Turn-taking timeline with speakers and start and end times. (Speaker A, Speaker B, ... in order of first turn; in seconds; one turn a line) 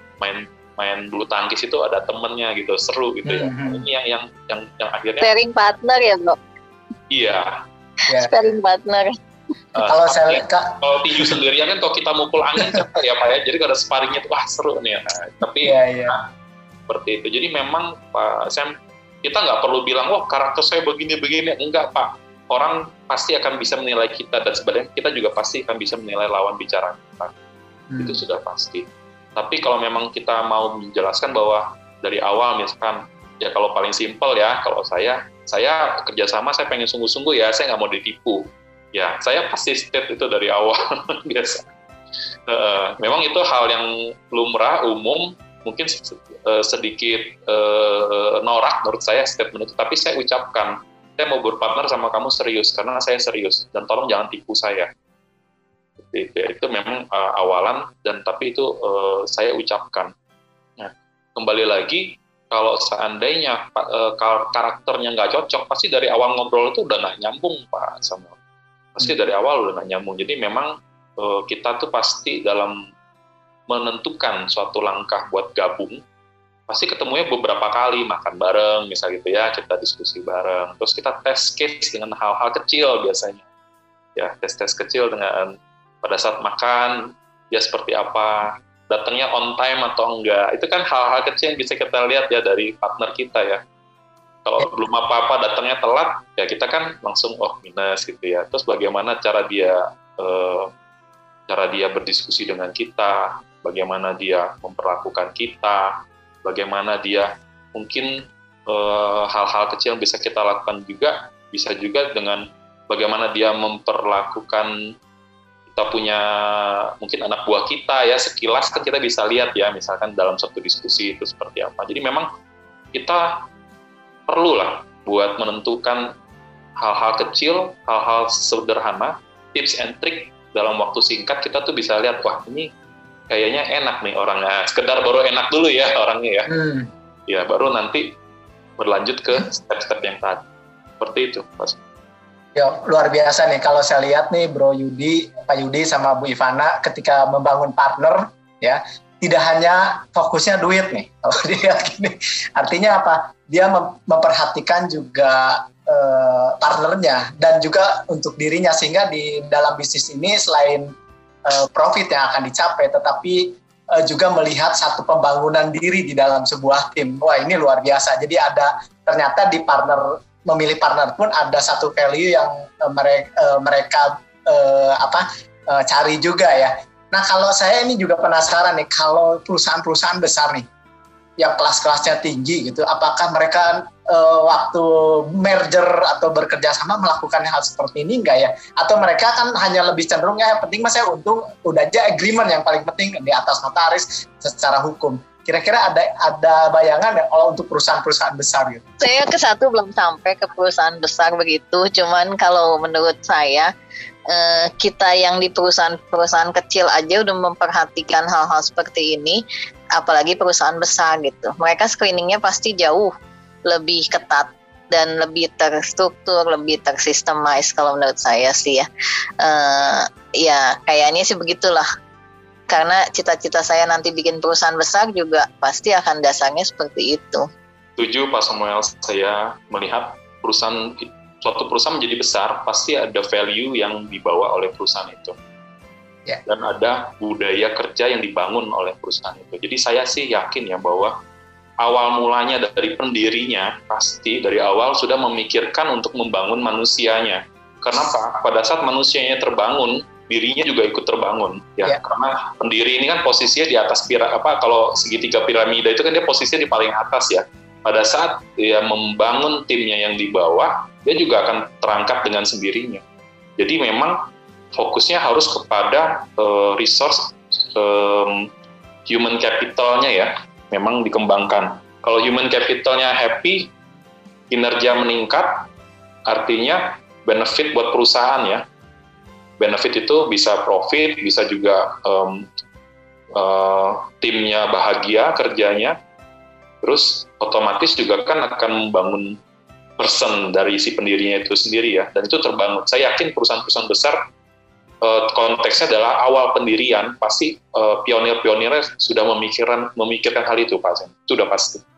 Speaker A: 0.2-5.3
Speaker B: 3.2-3.8
Speaker C: 5.2-6.4
Speaker A: 7.1-7.5
Speaker B: 8.1-8.4
Speaker C: 8.2-9.1
Speaker A: 9.7-16.2
Speaker B: 9.8-11.4
Speaker B: 12.6-12.8
Speaker B: 15.6-16.2
Speaker A: 16.9-27.3
Speaker B: 27.9-28.2
Speaker A: 28.0-41.6
Speaker A: 42.5-54.9
Speaker A: 56.0-60.1
Speaker A: 60.8-68.3
Speaker A: 68.9-72.8
Speaker A: 73.7-76.0
Speaker A: 76.7-83.4
Speaker A: 84.2-87.0
Speaker A: 87.5-93.6
Speaker A: 94.4-100.7
Speaker A: 101.5-114.7
Speaker A: 115.7-122.3
Speaker A: 122.9-123.4
Speaker A: 124.3-126.1
Speaker A: 126.8-132.7
Speaker A: 133.3-136.5
Speaker B: 136.5-136.9
Speaker A: 137.3-138.1
Speaker A: 138.8-140.4
Speaker A: 141.0-141.8
Speaker B: 142.5-160.9
Speaker B: 161.5-180.7
Speaker B: 181.4-198.8
Speaker C: 199.0-203.7
Speaker C: 204.3-209.4
Speaker C: 209.9-213.1
Speaker C: 213.7-218.8
Speaker C: 219.4-221.8
Speaker C: 222.7-227.4
Speaker A: 228.0-235.3
Speaker A: 236.4-241.1
Speaker A: 241.8-263.0
Speaker A: 263.6-264.2
Speaker A: 264.7-268.5
Speaker A: 269.1-273.7
Speaker A: 274.5-275.6
Speaker A: 276.3-278.6
Speaker A: 279.6-282.4
Speaker A: 283.3-285.9
Speaker A: 286.8-289.4
Speaker A: 290.0-294.2
Speaker A: 295.0-301.8